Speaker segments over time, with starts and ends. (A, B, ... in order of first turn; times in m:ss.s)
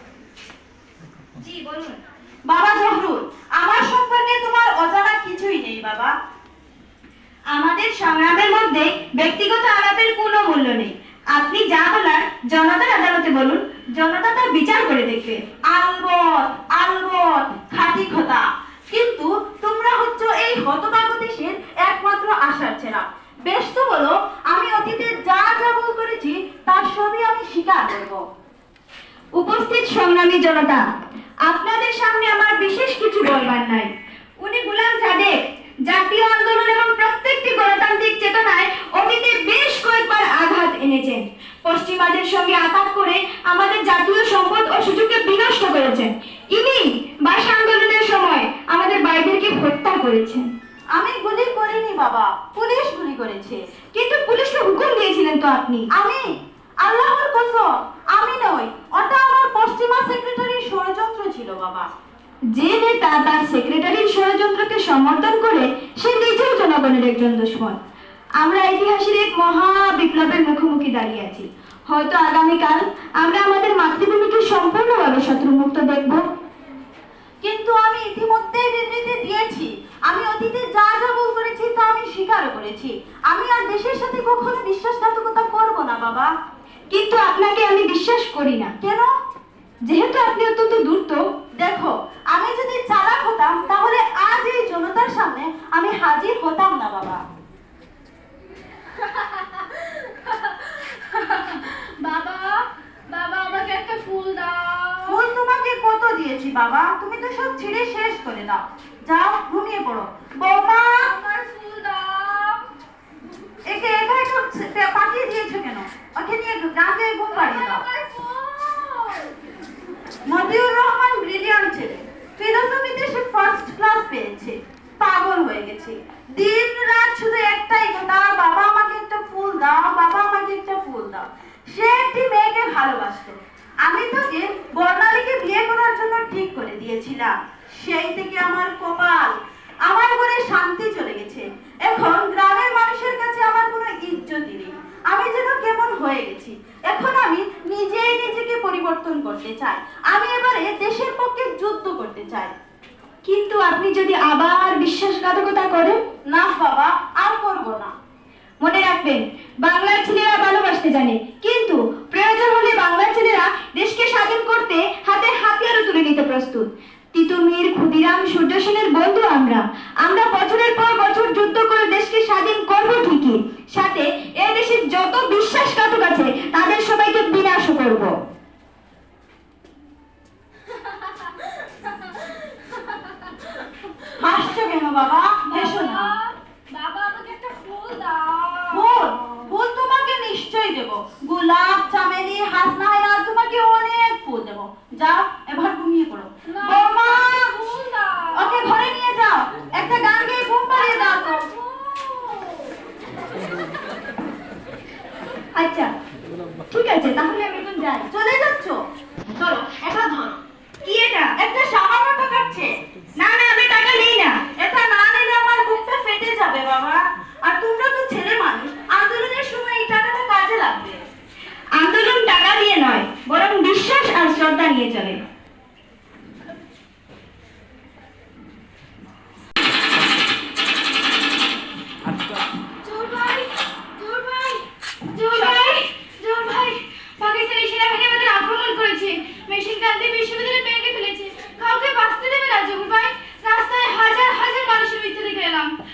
0:01.4-0:02.0 A
0:02.5-0:06.1 B
0:07.5-0:15.4 A
0:15.7-0:28.2 B
0:29.4-0:30.8 A
0:31.5-0:50.5 A
0:51.0-0:53.6 B
0:53.9-0:55.9 A
0:55.9-0:56.3 B
0:56.8-1:01.9 B
1:02.6-1:07.8 A
1:08.4-1:16.2 A
1:17.4-1:26.3 B
1:26.9-1:28.7 A
1:28.8-1:29.1 B
1:29.9-1:31.2 A
1:31.6-1:37.2 B
1:39.0-1:45.2 C
1:45.1-1:51.1 B
1:50.8-1:52.7 C
1:53.7-1:57.8 B
1:57.3-1:59.4 C
2:00.3-2:32.5 B
2:33.3-2:36.0 A
2:36.3-2:37.9 B
2:38.6-2:58.1 A
3:01.0-3:03.2 C
3:04.1-3:06.1 B
3:05.5-3:08.9 C
3:08.7-3:17.5 B
3:16.5-3:18.7 C
3:18.4-3:21.4 B
3:20.7-3:22.8 C
3:25.6-3:25.9 A
3:26.7-3:28.1 A
3:28.1-3:28.8 B
3:29.3-3:30.4 B
3:30.8-3:31.3 A
3:31.4-3:32.7 B
3:33.2-3:34.4 A
3:34.6-3:41.0 B
3:41.8-3:45.2 A
3:52.8-3:54.6 C
3:55.1-4:05.7 C